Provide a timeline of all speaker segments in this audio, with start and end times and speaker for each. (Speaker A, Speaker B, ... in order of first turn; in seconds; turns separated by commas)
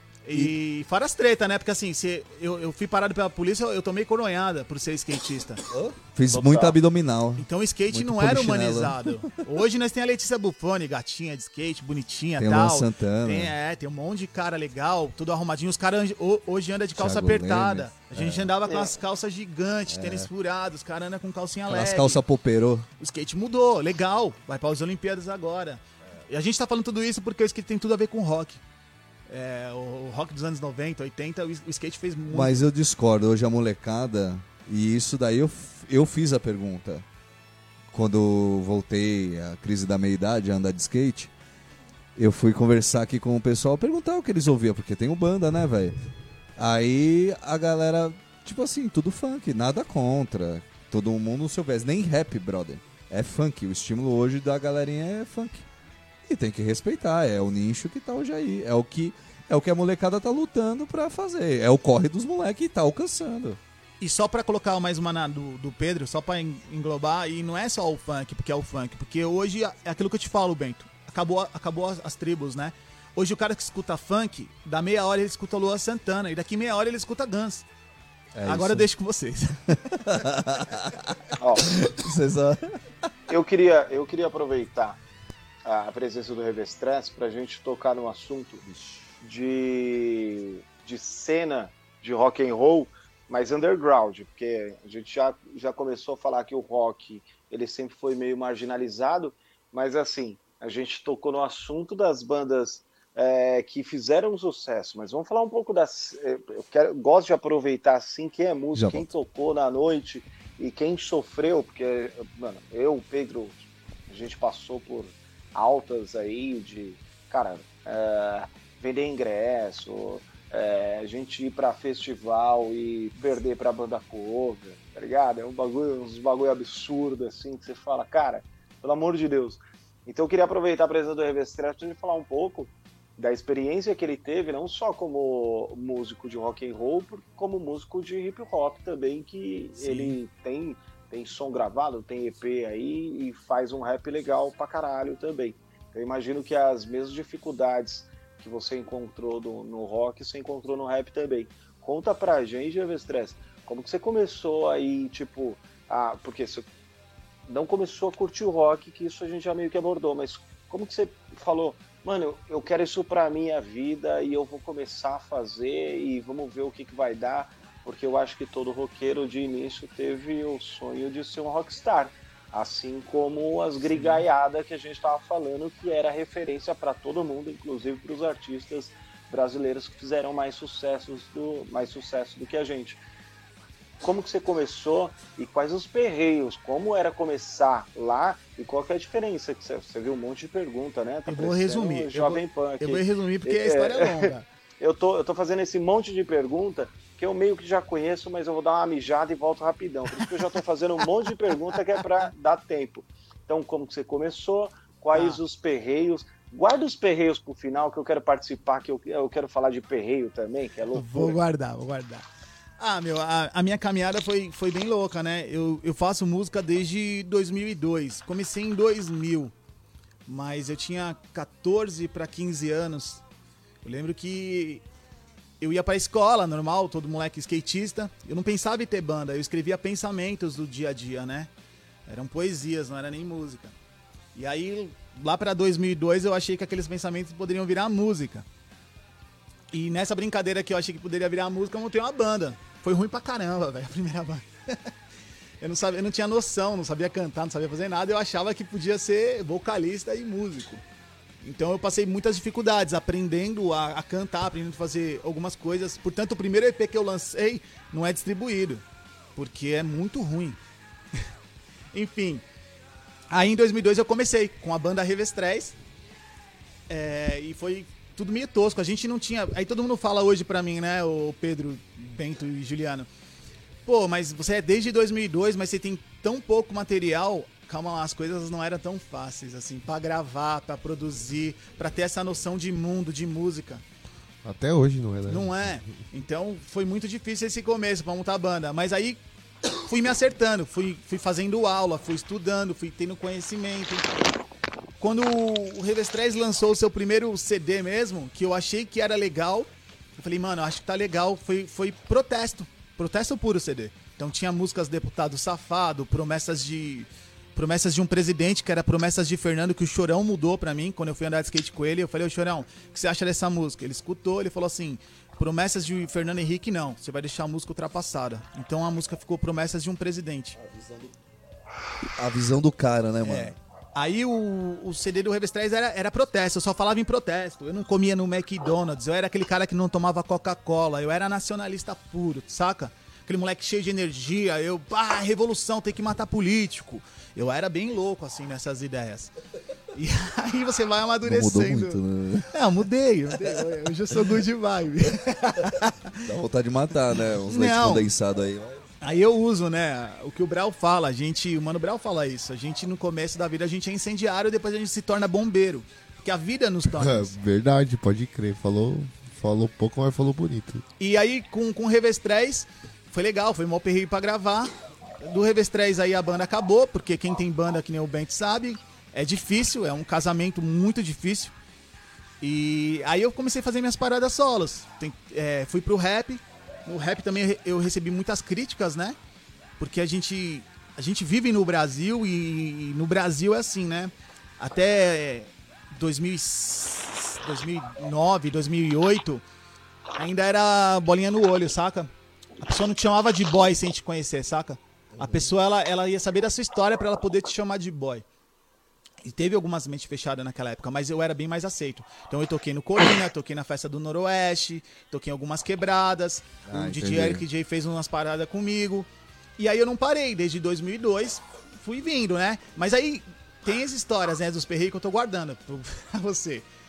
Speaker A: 0.2-5.6, Speaker B: 5.7-9.3, Speaker C: 6.3-6.8, Speaker A: 7.4-22.2, Speaker B: 12.4-13.5, Speaker B: 17.0-18.5, Speaker C: 18.7-18.9, Speaker B: 19.9-20.3, Speaker B: 21.7-22.9, Speaker A: 23.0-28.6, Speaker A: 29.3-32.6, Speaker B: 32.3-37.0, Speaker B: 37.9-41.3, Speaker B: 42.2-46.0, Speaker B: 46.6-55.7, Speaker B: 56.3-63.6, Speaker A: 64.0-77.6, Speaker B: 78.3-78.9, Speaker A: 78.5-80.1, Speaker B: 79.7-82.8, Speaker C: 81.4-81.7, Speaker C: 83.3-85.0, Speaker C: 85.7-88.6, Speaker B: 88.7-89.2, Speaker C: 89.2-156.7, Speaker B: 108.7-109.1, Speaker A: 139.8-140.2, Speaker C: 157.5-183.0, Speaker C: 184.0-211.4, Speaker A: 191.3-194.5, Speaker A: 205.1-205.4, Speaker A: 210.9-212.3, Speaker A: 212.8-219.5, Speaker A: 220.3-223.2, Speaker A: 223.8-224.8, Speaker A: 225.6-231.5, Speaker A: 232.1-233.7, Speaker A: 234.3-238.4, Speaker A: 239.7-244.9, Speaker A: 245.6-250.8, Speaker A: 251.4-258.8, Speaker A: 259.4-260.6, Speaker A: 261.9-262.4, Speaker A: 263.3-265.8, Speaker A: 266.9-273.1, Speaker A: 273.9-283.8, Speaker D: 284.4-285.8, Speaker A: 285.3-289.2, Speaker A: 289.8-294.1, Speaker A: 295.0-320.6, Speaker B: 320.6-321.1, Speaker B: 322.0-323.6, Speaker A: 323.2-339.4, Speaker A: 339.9-346.3, Speaker B: 341.2-342.5, Speaker B: 346.2-348.8, Speaker A: 347.2-348.1, Speaker A: 349.0-357.4, Speaker D: 356.9-360.8, Speaker A: 361.0-371.5, Speaker A: 372.4-379.2, Speaker A: 379.8-389.4, Speaker A: 390.2-398.2, Speaker B: 395.1-395.5, Speaker A: 399.2-409.1, Speaker B: 406.7-407.4, Speaker A: 409.6-416.6